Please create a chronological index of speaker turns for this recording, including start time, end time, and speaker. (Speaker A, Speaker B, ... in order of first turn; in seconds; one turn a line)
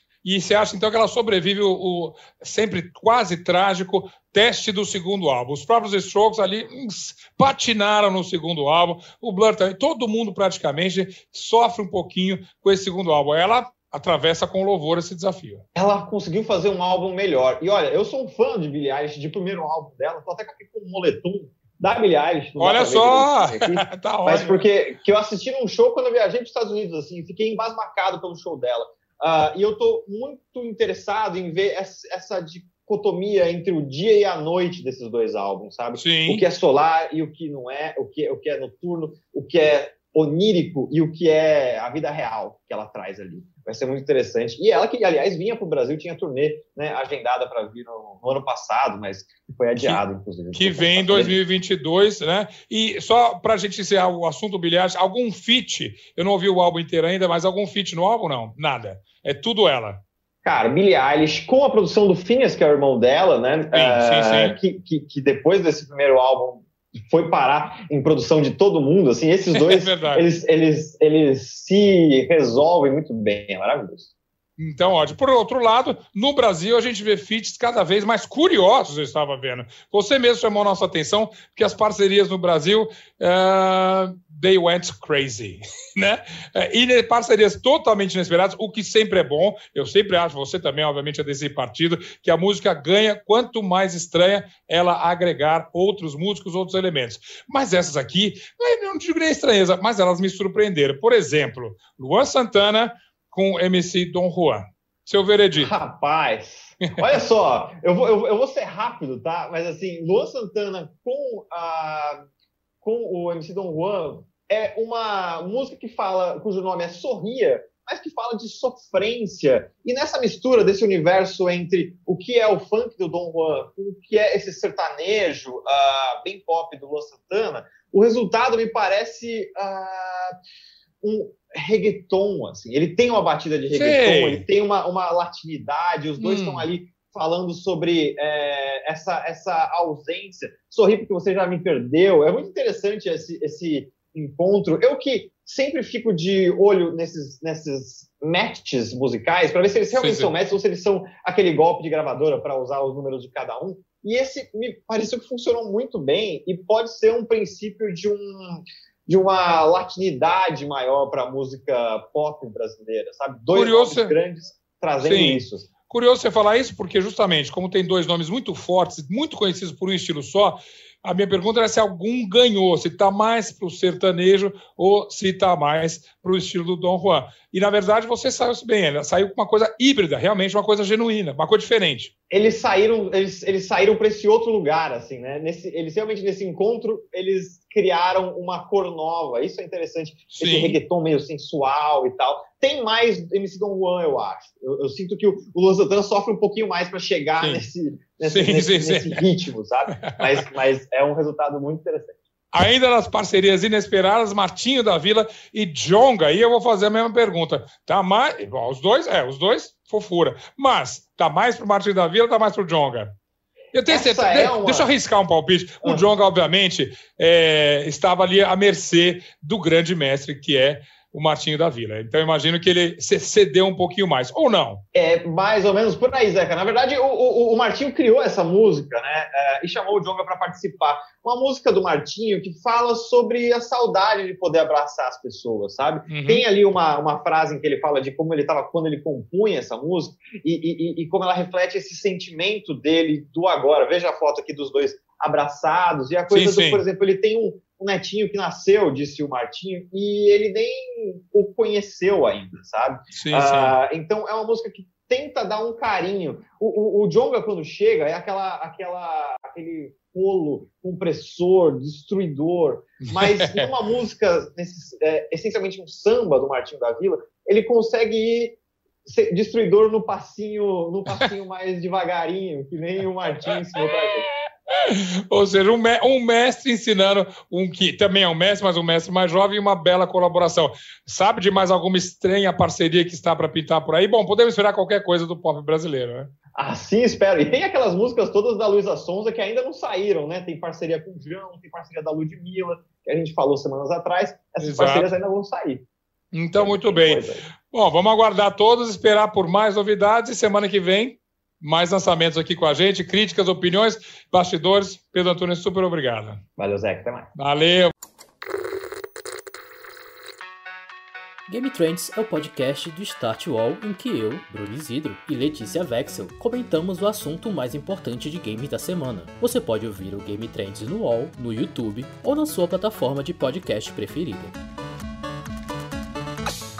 Speaker A: 0.2-15.6
Speaker B: 15.7-51.4
Speaker A: 22.6-24.6
Speaker A: 36.0-36.4
Speaker A: 49.8-50.0
Speaker A: 50.5-60.0
Speaker B: 60.4-74.1
Speaker A: 63.7-64.6
Speaker A: 69.5-70.2
Speaker A: 74.6-105.7
Speaker B: 105.5-112.2
Speaker B: 112.8-130.3
Speaker B: 131.0-165.7
Speaker A: 133.7-134.4
Speaker A: 136.2-136.7
Speaker A: 149.9-150.3
Speaker A: 163.5-164.2
Speaker A: 165.0-182.1
Speaker B: 182.3-202.1
Speaker A: 190.3-190.8
Speaker A: 197.4-197.6
Speaker A: 198.2-199.2
Speaker A: 202.5-213.1
Speaker A: 213.7-224.8
Speaker B: 213.9-214.9
Speaker B: 224.9-274.3
Speaker A: 236.1-236.4
Speaker A: 246.3-246.8
Speaker A: 253.1-253.7
Speaker A: 263.0-263.7
Speaker A: 274.7-286.3
Speaker B: 286.6-295.8
Speaker A: 294.6-295.1
Speaker A: 296.3-306.4
Speaker B: 296.6-297.4
Speaker B: 306.6-307.3
Speaker A: 307.4-307.9
Speaker C: 311.5-324.6